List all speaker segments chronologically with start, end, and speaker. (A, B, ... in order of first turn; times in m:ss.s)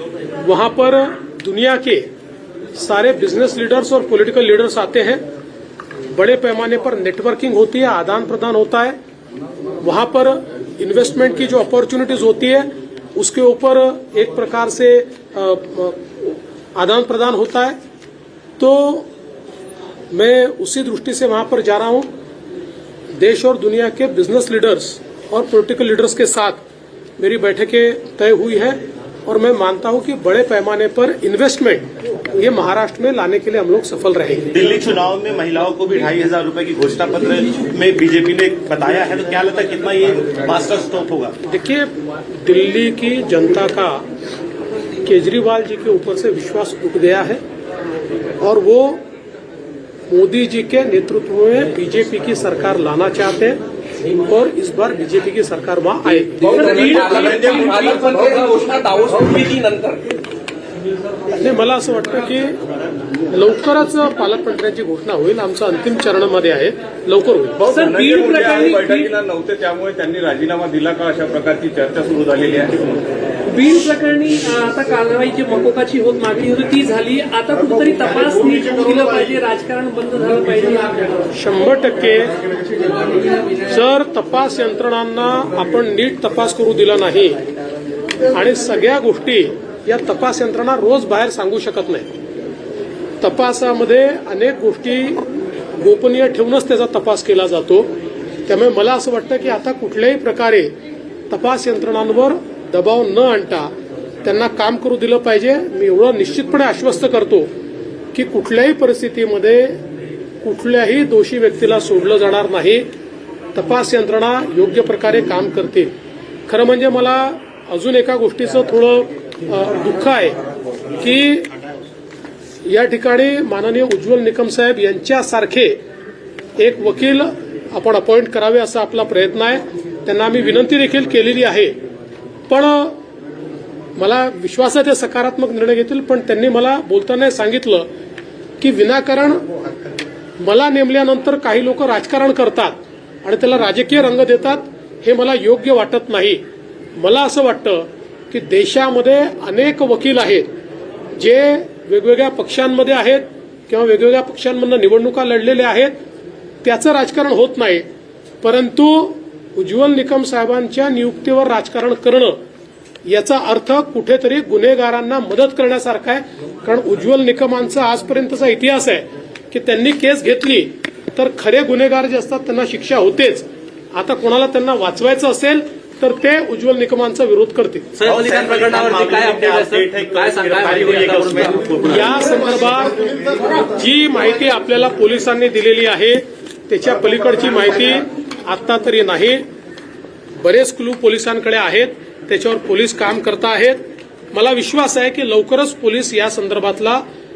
0:00.4-0:02.1 A
0:02.7-0:05.2 A
0:06.1-0:09.0 A
0:09.8-0:17.8 A
0:18.6-0:19.1 A
0:20.1-0:22.1 A
0:23.1-0:26.6 A
0:27.2-0:34.5 A
0:34.5-0:41.3 B
0:41.5-0:44.1 A
0:45.0-0:47.4 A
0:48.4-0:49.0 A
0:50.1-0:53.6 A
0:54.2-0:56.7 A
0:56.4-1:00.2 C
0:56.4-0:58.2 D
1:01.3-1:02.6 A
1:03.3-1:07.6 A
1:07.6-1:13.1 E
1:07.6-1:09.1 D
1:13.5-1:21.3 D
1:21.3-1:22.3 A
1:23.6-1:27.4 A
1:28.3-1:32.1 A
1:33.2-1:35.2 A
1:35.8-1:37.9 A
1:38.4-1:40.7 A
1:41.3-1:43.7 A
1:44.2-1:47.5 A
1:48.1-1:49.8 A
1:50.4-1:52.8 A
1:53.5-1:55.9 A
1:56.5-2:00.4 A
2:01.0-2:01.5 A
2:02.6-2:05.8 A
2:06.6-2:11.8 A
2:12.5-2:13.0 A
2:14.0-2:17.9 A
2:18.6-2:19.4 A
2:20.4-2:26.4 A
2:27.0-2:30.5 A
2:31.2-2:35.9 A
2:36.6-2:37.8 A
2:38.4-2:42.4 A
2:43.0-2:58.0 A
2:58.0-3:01.9 C
2:58.0-3:02.2 B
3:01.8-3:09.4 A
3:10.4-3:17.0 A